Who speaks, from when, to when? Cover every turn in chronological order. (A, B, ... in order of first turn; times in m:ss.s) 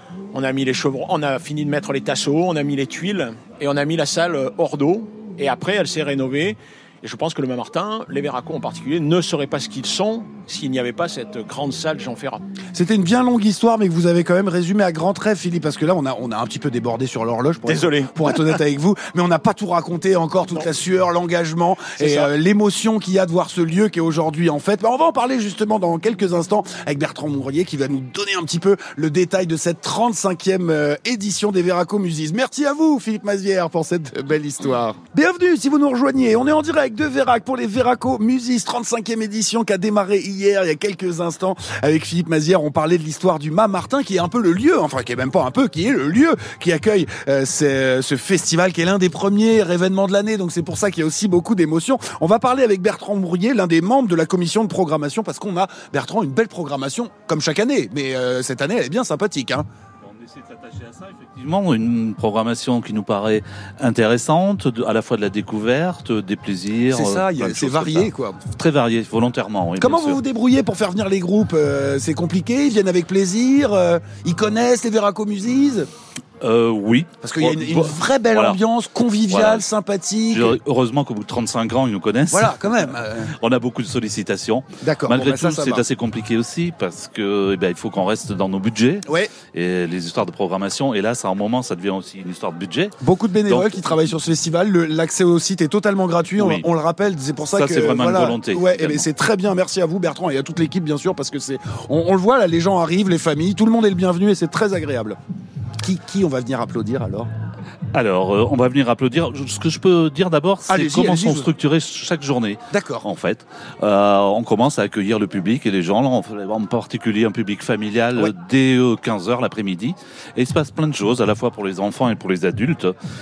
0:00.3-0:12.4 A
0:12.7-0:59.6 B
0:17.6-0:18.6 A
0:22.0-0:22.3 A
1:00.0-1:10.2 C
1:06.9-1:08.4 B
1:09.8-1:15.9 B
1:16.4-1:18.6 C
1:17.2-1:20.6 B
1:19.3-1:19.7 C
1:20.3-1:33.0 C
1:22.3-1:23.3 B
1:24.8-1:25.8 B
1:29.1-1:29.3 B
1:33.0-1:45.2 B
1:33.5-1:34.0 C
1:36.4-1:36.7 C
1:37.5-1:39.1 C
1:45.8-1:47.3 B
1:47.9-2:02.9 C
1:50.7-1:51.5 B
1:52.7-1:53.1 B